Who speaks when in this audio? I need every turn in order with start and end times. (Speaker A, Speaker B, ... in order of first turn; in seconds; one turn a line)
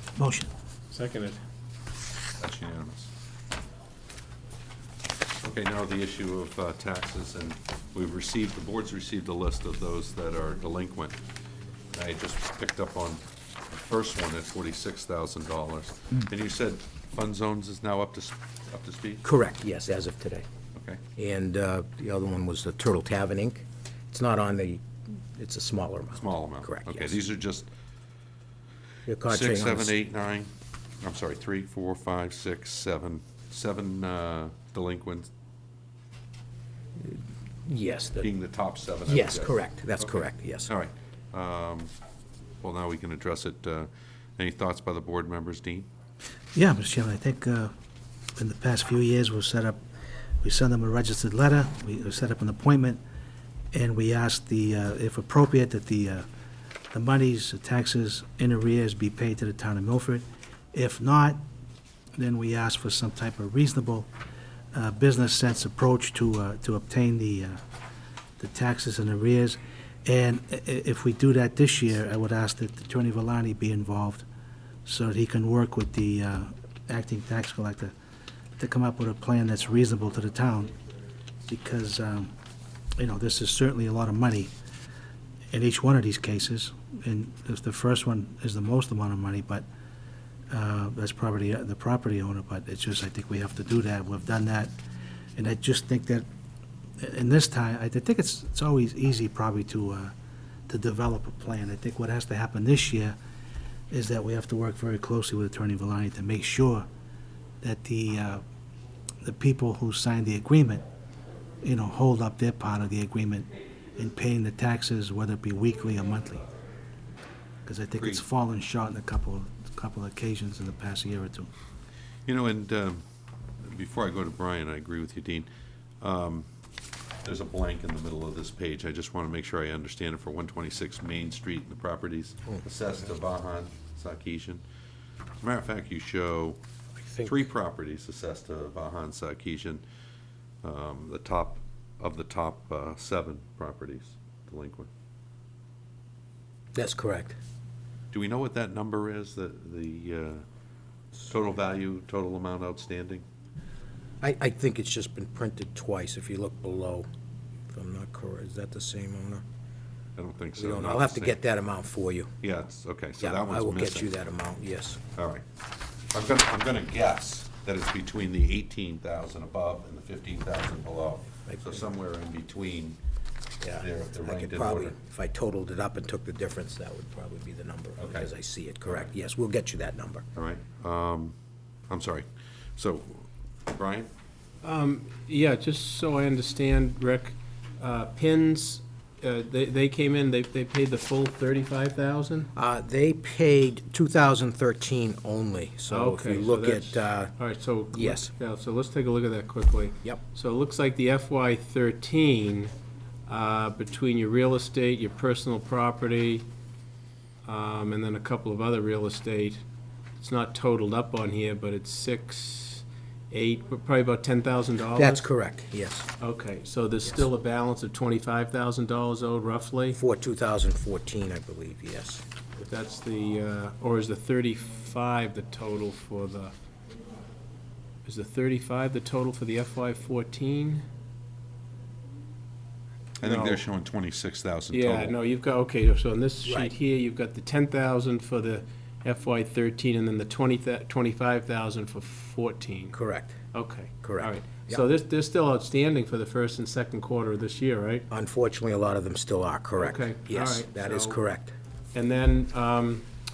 Speaker A: 0.2-0.5
Speaker B: 0.9-1.4
Speaker C: 2.4-3.1
Speaker C: 5.4-11.2
Speaker C: 11.9-19.2
Speaker D: 19.2-20.5
Speaker C: 20.8-21.0
Speaker D: 21.2-27.2
Speaker C: 26.2-27.7
Speaker D: 29.1-29.9
Speaker C: 29.3-30.5
Speaker C: 31.0-35.3
Speaker D: 37.0-38.3
Speaker C: 38.2-41.9
Speaker D: 39.1-40.7
Speaker C: 42.6-45.9
Speaker A: 46.5-47.7
Speaker A: 48.4-49.8
Speaker A: 50.4-53.0
Speaker A: 53.7-56.2
Speaker A: 56.9-61.4
Speaker A: 62.2-64.1
Speaker A: 64.7-67.6
Speaker A: 68.4-74.3
Speaker A: 74.8-77.9
Speaker A: 78.6-80.7
Speaker A: 81.5-82.3
Speaker A: 83.0-84.5
Speaker A: 85.5-89.7
Speaker A: 90.5-94.7
Speaker A: 95.4-96.3
Speaker A: 97.0-100.1
Speaker A: 100.7-103.2
Speaker A: 103.9-106.9
Speaker A: 107.6-108.4
Speaker A: 109.2-110.8
Speaker A: 111.6-116.5
Speaker A: 117.7-121.5
Speaker C: 118.0-118.2
Speaker C: 122.3-123.0
Speaker C: 123.7-125.5
Speaker C: 126.0-126.5
Speaker C: 127.2-134.6
Speaker C: 135.4-136.6
Speaker D: 137.0-137.4
Speaker C: 137.2-139.8
Speaker C: 140.6-144.9
Speaker D: 146.8-147.4
Speaker C: 148.1-150.4
Speaker C: 151.3-153.2
Speaker D: 154.2-157.1
Speaker D: 157.7-159.4
Speaker C: 160.2-161.4
Speaker D: 160.6-162.3
Speaker C: 162.4-164.1
Speaker D: 163.2-165.0
Speaker C: 165.2-165.4
Speaker C: 166.1-173.0
Speaker D: 171.5-171.8
Speaker D: 173.6-180.2
Speaker C: 173.8-175.0
Speaker C: 178.0-178.3
Speaker C: 180.4-181.3
Speaker C: 181.9-182.3
Speaker C: 182.8-184.1
Speaker B: 184.6-192.5
Speaker D: 192.6-197.3
Speaker B: 195.9-202.7
Speaker D: 197.9-198.3
Speaker B: 203.3-206.5
Speaker B: 207.4-209.6
Speaker B: 210.2-215.3
Speaker D: 215.0-216.1
Speaker B: 216.2-220.0
Speaker D: 219.9-222.2
Speaker B: 222.6-226.5
Speaker B: 228.1-230.8
Speaker C: 233.2-235.2
Speaker B: 233.2-233.6
Speaker B: 234.7-242.9
Speaker D: 236.4-236.7
Speaker D: 242.9-243.4
Speaker B: 243.5-248.1
Speaker D: 244.0-244.8
Speaker D: 248.1-251.6
Speaker B: 249.8-251.2
Speaker B: 251.9-253.1